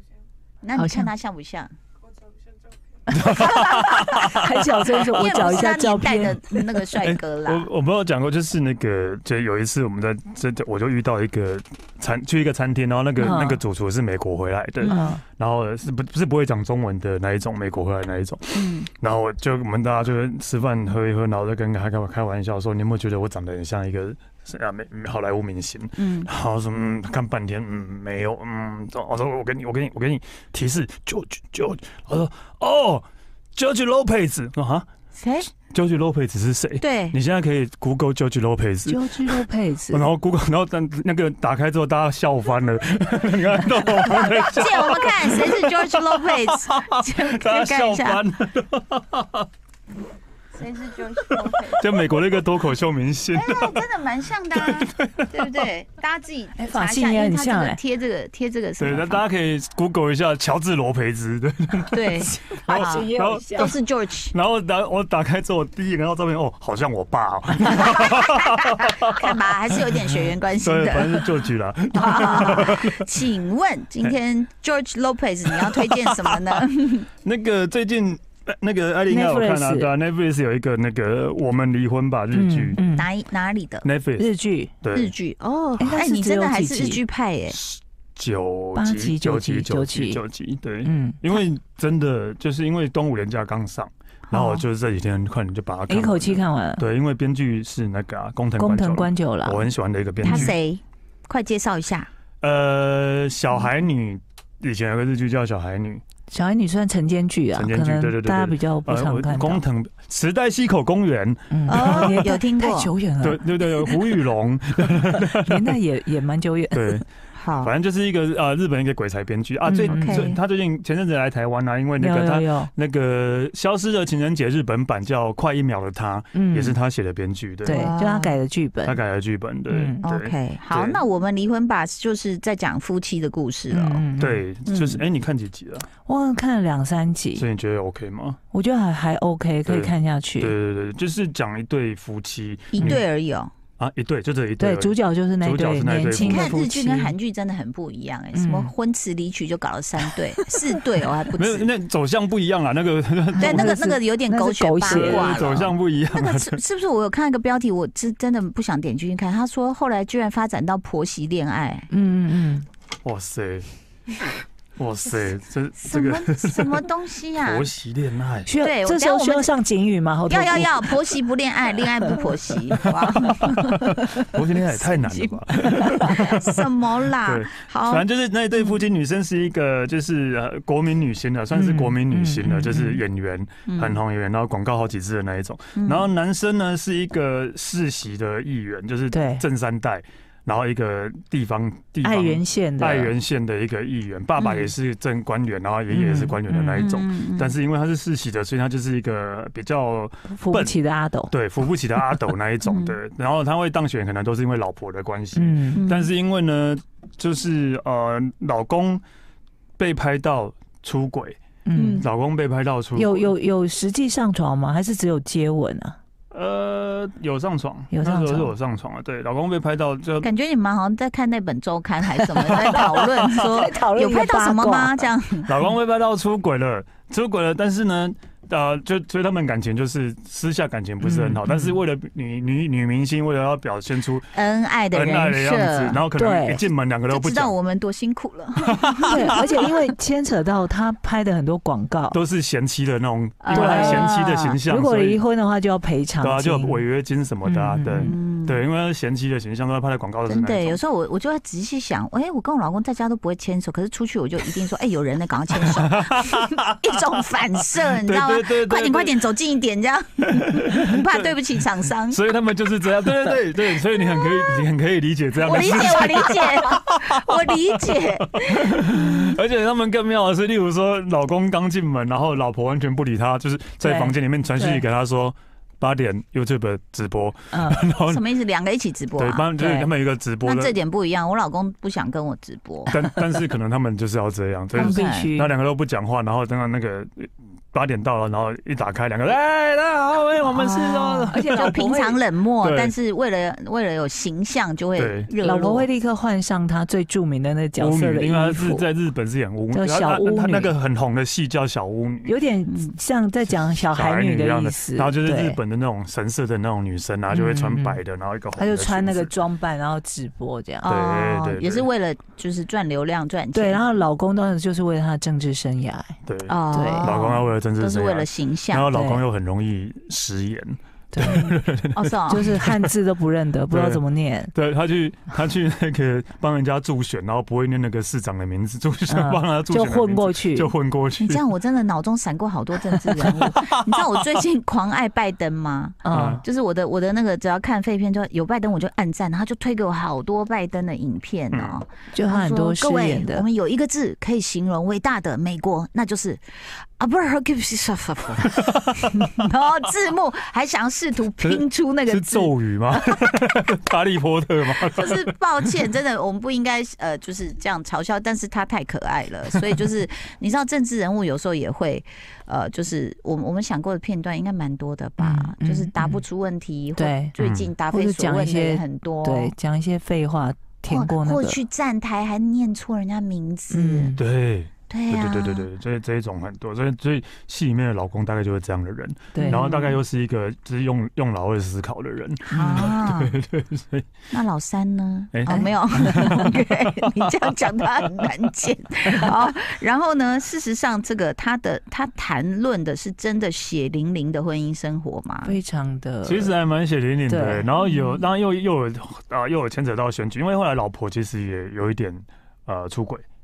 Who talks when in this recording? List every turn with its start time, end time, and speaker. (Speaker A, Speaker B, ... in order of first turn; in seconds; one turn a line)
Speaker A: 0.6-1.7
Speaker B: 0.8-1.1
Speaker C: 3.1-5.5
Speaker B: 3.1-6.6
Speaker A: 3.3-4.4
Speaker A: 4.9-7.7
Speaker C: 7.0-34.9
Speaker B: 13.2-13.6
Speaker A: 14.8-15.2
Speaker B: 14.8-15.2
Speaker A: 18.5-18.9
Speaker A: 26.0-26.3
Speaker A: 35.1-35.5
Speaker C: 35.7-49.5
Speaker A: 36.8-37.2
Speaker B: 38.9-40.1
Speaker A: 44.4-48.2
Speaker A: 50.5-51.9
Speaker C: 51.5-53.8
Speaker A: 53.3-59.2
Speaker C: 54.5-55.6
Speaker B: 56.6-57.8
Speaker C: 58.8-63.7
Speaker A: 61.9-64.3
Speaker B: 62.5-63.7
Speaker C: 64.3-69.4
Speaker A: 67.7-71.3
Speaker C: 70.6-73.0
Speaker A: 71.9-77.1
Speaker C: 75.5-76.4
Speaker C: 77.2-82.8
Speaker B: 79.1-79.9
Speaker B: 82.3-83.1
Speaker A: 82.9-83.8
Speaker C: 83.8-84.3
Speaker B: 84.2-84.8
Speaker C: 84.8-85.1
Speaker A: 84.9-87.6
Speaker B: 85.8-87.0
Speaker C: 87.5-100.5
Speaker B: 88.7-90.2
Speaker B: 90.8-91.2
Speaker A: 94.3-94.6
Speaker B: 95.9-96.8
Speaker B: 98.6-99.7
Speaker A: 100.2-102.1
Speaker B: 100.2-100.5
Speaker C: 102.4-106.0
Speaker B: 106.3-109.6
Speaker C: 107.5-112.2
Speaker B: 111.5-114.1
Speaker A: 111.7-112.9
Speaker C: 113.2-115.8
Speaker B: 114.9-117.0
Speaker C: 116.7-117.0
Speaker A: 117.3-117.7
Speaker C: 117.6-127.9
Speaker B: 119.7-120.4
Speaker A: 119.8-120.4
Speaker B: 122.0-122.7
Speaker B: 126.3-126.8
Speaker B: 127.6-129.0
Speaker A: 127.7-128.4
Speaker C: 128.8-131.0
Speaker B: 129.7-130.0
Speaker A: 130.0-134.1
Speaker B: 133.7-134.4
Speaker C: 134.2-135.9
Speaker A: 134.7-135.0
Speaker B: 136.1-137.4
Speaker C: 137.3-138.4
Speaker B: 138.5-140.5
Speaker C: 139.7-143.0
Speaker A: 142.7-143.5
Speaker C: 143.8-146.5
Speaker B: 144.6-147.1
Speaker A: 146.2-151.7
Speaker B: 148.3-148.7
Speaker C: 151.3-153.7
Speaker B: 153.3-155.6
Speaker A: 153.4-161.9
Speaker C: 154.8-156.6
Speaker B: 161.9-162.7
Speaker C: 163.0-163.7
Speaker C: 164.8-166.8
Speaker A: 165.8-167.7
Speaker C: 167.4-168.5
Speaker B: 168.5-171.0
Speaker A: 168.6-169.5
Speaker A: 170.3-178.0
Speaker C: 173.2-200.8
Speaker B: 181.5-183.0
Speaker A: 183.7-184.0
Speaker A: 185.8-186.1
Speaker B: 189.1-189.4
Speaker B: 192.0-193.1
Speaker A: 194.4-194.7
Speaker B: 195.9-196.9
Speaker A: 196.8-197.6
Speaker B: 200.3-201.3
Speaker C: 201.3-209.0
Speaker A: 202.6-203.0
Speaker B: 205.3-205.8
Speaker A: 205.7-206.1
Speaker C: 209.8-211.4
Speaker B: 211.7-212.1
Speaker A: 211.7-212.1
Speaker C: 212.0-213.3
Speaker B: 212.9-216.0
Speaker C: 216.3-220.3
Speaker B: 217.9-218.5
Speaker A: 220.2-225.5
Speaker C: 222.3-223.6
Speaker B: 222.6-225.1
Speaker C: 225.5-234.3
Speaker B: 231.0-231.8
Speaker A: 234.3-236.0
Speaker C: 234.9-237.5
Speaker B: 236.1-236.6
Speaker A: 237.1-239.5
Speaker C: 239.0-239.6
Speaker B: 239.1-242.2
Speaker C: 242.1-245.2
Speaker A: 243.4-244.6
Speaker B: 243.5-244.1
Speaker B: 244.7-246.8
Speaker C: 246.2-250.8
Speaker B: 247.4-248.1
Speaker A: 248.0-248.6
Speaker A: 250.3-262.2
Speaker C: 255.8-256.7
Speaker C: 258.0-259.2
Speaker C: 260.4-278.2
Speaker A: 265.4-269.1
Speaker B: 273.8-274.8
Speaker B: 277.5-277.8
Speaker A: 278.1-279.5
Speaker C: 279.1-280.8
Speaker B: 279.6-279.9
Speaker A: 280.4-282.9
Speaker C: 282.9-291.8
Speaker B: 284.7-285.5
Speaker A: 284.7-285.3
Speaker B: 290.5-292.2
Speaker A: 291.3-295.9
Speaker C: 292.6-292.9
Speaker C: 294.9-295.3
Speaker B: 295.4-298.9
Speaker C: 297.8-302.3
Speaker B: 299.7-300.7
Speaker B: 302.2-305.6
Speaker C: 303.9-309.3
Speaker B: 307.3-308.0
Speaker B: 308.6-310.9
Speaker A: 310.8-313.8
Speaker C: 310.8-311.9
Speaker B: 313.5-316.2
Speaker C: 316.2-322.9
Speaker A: 316.5-318.9
Speaker B: 316.7-317.2
Speaker B: 318.9-319.2
Speaker B: 321.1-321.6
Speaker A: 321.9-322.5
Speaker B: 322.3-324.5
Speaker C: 323.7-324.0
Speaker C: 324.5-331.4
Speaker B: 329.1-330.7
Speaker A: 331.2-353.2
Speaker C: 333.2-333.7
Speaker B: 336.0-336.4
Speaker C: 336.1-336.4
Speaker C: 341.5-341.8
Speaker B: 342.1-343.5
Speaker C: 348.5-349.3
Speaker C: 351.4-355.7
Speaker A: 354.8-369.5
Speaker B: 365.2-366.2
Speaker B: 367.0-371.6
Speaker C: 367.4-367.7
Speaker A: 370.9-374.1
Speaker B: 373.7-374.2
Speaker C: 374.2-384.1
Speaker A: 374.9-375.7
Speaker B: 379.3-379.6
Speaker A: 379.4-380.0
Speaker A: 382.5-383.3
Speaker A: 384.3-395.5
Speaker C: 385.3-387.5
Speaker B: 395.4-396.5
Speaker C: 396.2-403.2
Speaker B: 397.3-397.7
Speaker A: 397.8-398.2